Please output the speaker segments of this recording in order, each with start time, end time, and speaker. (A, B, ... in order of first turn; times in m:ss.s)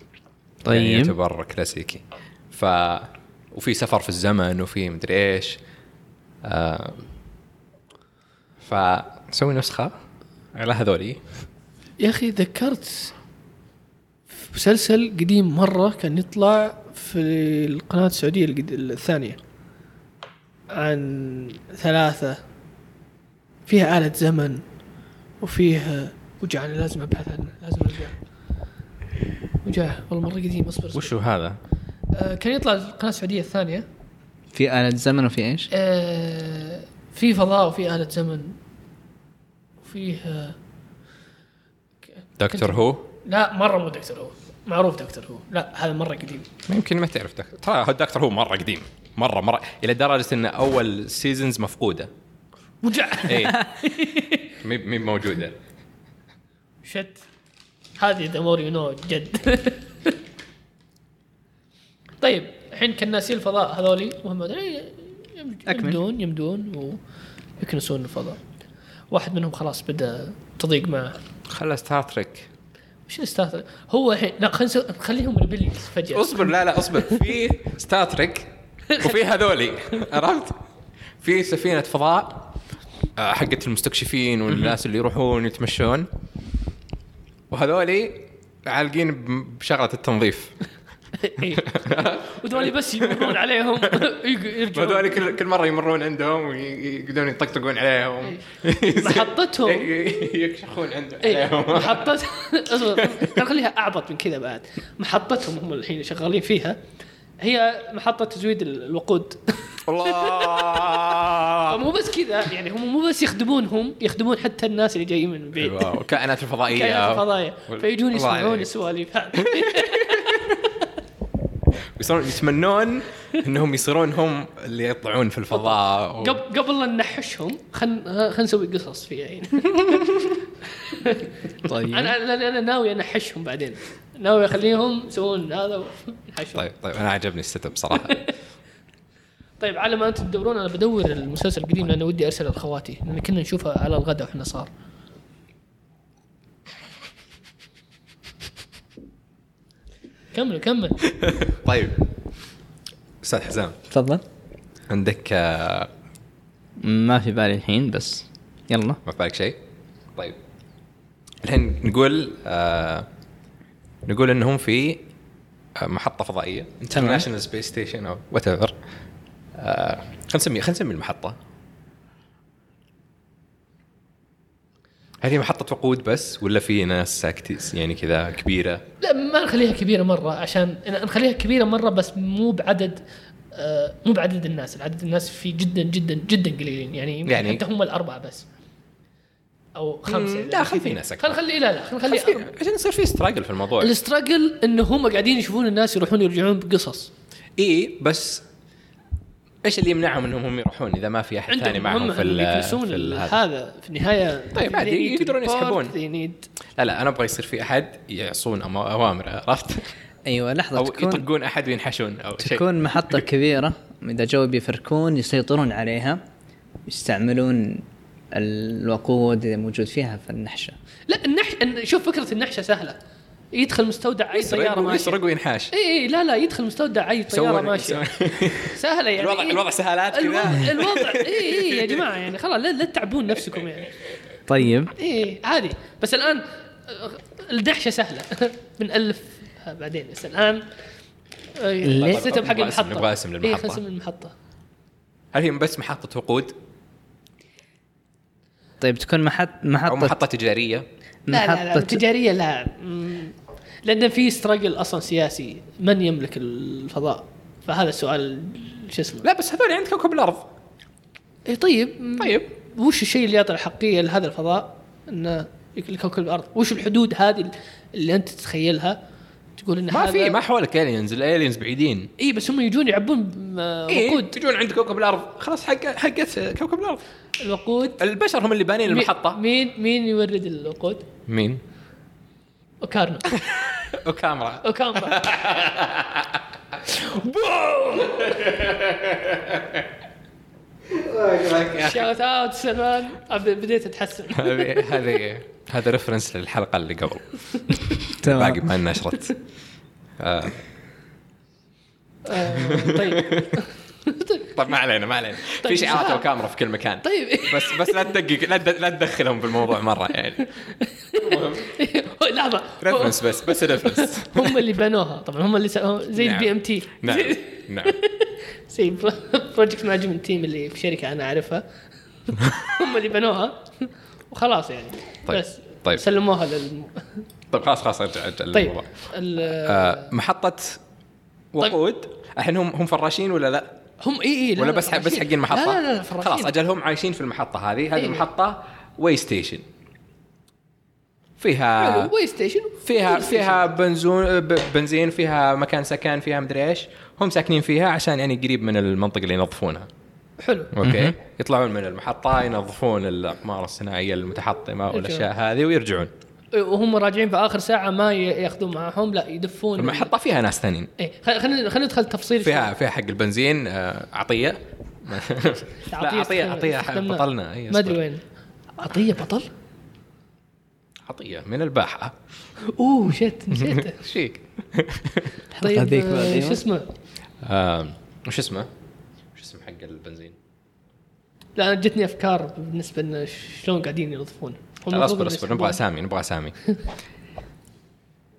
0:00.6-0:01.2 A
0:00.7-0:05.6 B
0:06.4-0:07.1 B
0:08.6-0:09.9 B
0:10.6-0:11.4 B
0:12.0-0:13.1 C
0:14.4-0:19.4 C
0:20.7-0:22.4 C
0:23.7-0:24.6 C
0:25.4-0:28.2 C
0:29.6-0:31.1 C
0:30.9-0:31.6 B
0:32.1-0:33.9 C
0:34.5-0:35.7 A
0:35.7-0:38.6 C
0:39.8-0:40.6 C
0:42.4-0:43.1 B
0:42.5-0:46.5 C
0:46.7-0:52.1 B
0:52.8-0:54.4 C
0:53.2-0:53.7 B
0:54.6-0:55.6 B
0:56.8-0:57.2 C
0:58.0-1:00.2 C
1:02.2-1:07.0 C
1:05.7-1:06.0 A
1:07.6-1:08.4 C
1:09.1-1:11.2 C
1:11.5-1:12.5 B
1:13.1-1:16.5 C
1:16.1-1:20.6 B
1:21.2-1:22.5 B
1:23.2-1:26.1 B
1:27.5-1:30.6 B
1:31.2-1:35.3 C
1:31.6-1:33.4 B
1:34.7-1:42.1 B
1:39.0-1:39.9 C
1:41.2-1:46.8 C
1:43.0-1:43.3 B
1:47.4-1:51.1 C
1:49.9-1:51.8 B
1:51.7-1:55.9 C
1:55.6-1:58.7 B
1:56.7-2:00.6 C
1:59.4-2:00.5 B
2:02.0-2:06.4 B
2:05.5-2:10.2 C
2:10.8-2:11.3 C
2:11.7-2:12.2 A
2:11.9-2:16.7 C
2:16.6-2:18.3 B
2:18.0-2:18.3 C
2:19.6-2:24.7 C
2:30.3-2:31.0 C
2:31.2-2:32.0 B
2:33.2-2:33.8 B
2:33.9-2:34.2 A
2:34.9-2:35.9 B
2:36.8-2:39.0 A
2:39.1-2:39.6 B
2:41.4-2:43.1 B
2:44.1-2:45.0 B
2:45.8-2:48.8 B
2:46.9-2:47.3 A
2:49.6-2:51.4 B
2:55.2-2:58.8 B
2:59.0-3:03.0 C
3:03.5-3:08.5 C
3:07.3-3:07.6 B
3:09.8-3:12.5 C
3:10.1-3:11.4 B
3:12.1-3:13.9 B
3:13.8-3:17.1 C
3:17.6-3:18.4 B
3:19.6-3:23.4 B
3:21.5-3:26.5 C
3:24.6-3:26.0 B
3:26.8-3:29.9 B
3:30.3-3:31.2 A
3:30.8-3:33.1 B
3:32.4-3:36.2 A
3:36.9-3:40.8 A
3:41.1-3:43.0 C
3:43.5-3:45.2 C
3:44.3-3:45.7 B
3:45.7-3:48.1 C
3:47.3-3:52.1 B
3:48.6-3:53.9 C
3:54.5-3:54.9 A
3:55.0-4:00.6 C
4:01.6-4:04.3 C
4:01.8-4:02.2 A
4:02.0-4:03.8 B
4:05.3-4:06.6 B
4:08.8-4:10.1 A
4:09.9-4:10.9 B
4:11.3-4:12.0 A
4:11.3-4:19.3 C
4:19.2-4:20.5 B
4:21.5-4:29.0 C
4:22.2-4:22.5 B
4:29.6-4:30.4 C
4:29.9-4:32.1 B
4:32.2-4:34.4 C
4:33.9-4:37.0 B
4:37.4-4:38.0 C
4:38.0-4:39.4 B
4:38.9-4:41.1 C
4:41.3-4:41.6 B
4:42.8-4:43.4 C
4:43.3-4:46.4 B
4:44.6-4:45.3 C
4:46.9-4:49.8 B
4:47.0-4:48.4 C
4:50.9-4:52.1 B
4:51.8-4:55.2 C
4:54.3-4:59.4 B
4:58.2-4:58.7 A
5:00.2-5:00.6 B
5:02.2-5:04.5 C
5:02.4-5:03.6 B
5:04.5-5:10.5 B
5:05.6-5:06.3 C
5:07.0-5:08.1 C
5:10.6-5:21.6 C
5:11.1-5:11.7 B
5:12.8-5:14.6 B
5:16.2-5:18.0 B
5:22.3-5:27.1 C
5:25.3-5:26.0 B
5:27.5-5:29.1 B
5:28.5-5:30.1 C
5:29.6-5:30.8 B
5:31.5-5:33.8 B
5:34.0-5:36.5 C
5:34.6-5:39.6 B
5:38.0-5:38.2 C
5:41.4-5:42.1 B
5:41.8-5:43.7 C
5:42.8-5:49.9 B
5:50.4-5:50.7 C
5:50.7-5:56.1 B
5:50.8-5:51.2 A
5:54.9-5:55.3 C
5:56.5-6:00.1 C
5:59.8-6:00.9 B
6:01.0-6:02.7 C
6:02.4-6:08.0 B
6:05.9-6:08.2 C
6:08.8-6:09.5 C
6:11.1-6:12.2 B
6:12.6-6:14.0 C
6:13.5-6:15.4 B
6:15.6-6:16.6 A
6:15.6-6:16.9 C
6:17.4-6:18.7 B
6:19.4-6:20.4 B
6:21.6-6:25.8 C
6:24.9-6:26.6 B